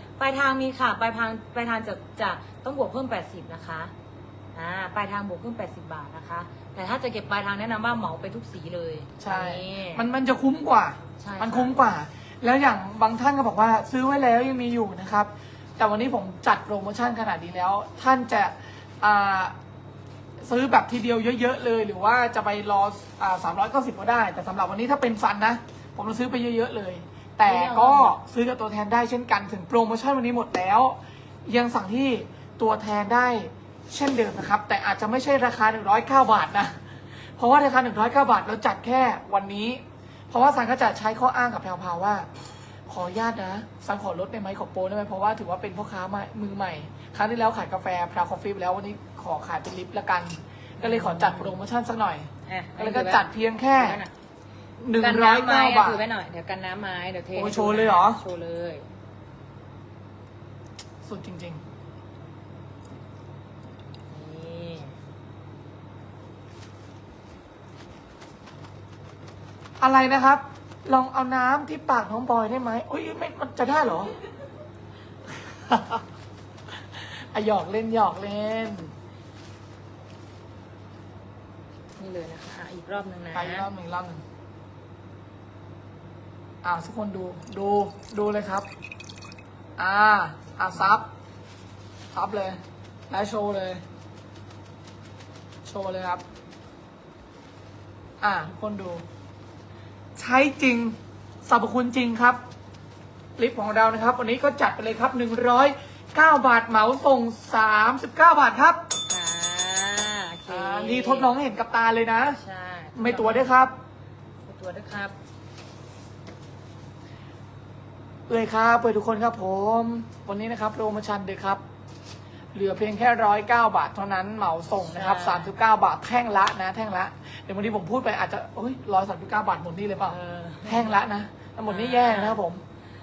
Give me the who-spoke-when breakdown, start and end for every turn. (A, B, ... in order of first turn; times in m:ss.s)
0:00.2-0:03.9 A
0:04.5-0:10.1 A
0:09.2-0:19.6 B
0:11.2-0:11.8 A
0:20.4-0:42.3 B
0:27.4-0:28.2 A
0:42.9-0:54.0 B
0:50.8-0:51.6 A
0:52.5-0:54.1 A
0:54.8-0:56.0 B
0:55.0-0:58.9 A
0:57.4-0:58.2 B
1:01.0-1:01.6 B
1:04.1-1:05.0 A
1:09.8-1:14.2 B
1:15.3-1:16.0 B
1:16.7-1:18.9 B
1:22.0-1:23.7 A
1:23.3-1:24.2 B
1:26.6-1:28.7 B
1:29.8-1:31.1 B
1:32.1-1:33.8 B
1:35.6-1:36.2 B
1:38.2-1:39.0 B
1:40.2-1:42.4 B
1:43.4-1:48.8 B
1:49.1-1:51.3 A
1:50.5-1:52.4 B
1:52.3-1:53.5 A
1:53.0-1:53.8 B
1:54.4-1:55.2 A
1:58.3-2:01.6 B
2:02.5-2:12.6 B
2:04.8-2:05.5 A
2:10.1-2:11.0 A
2:11.7-2:12.4 A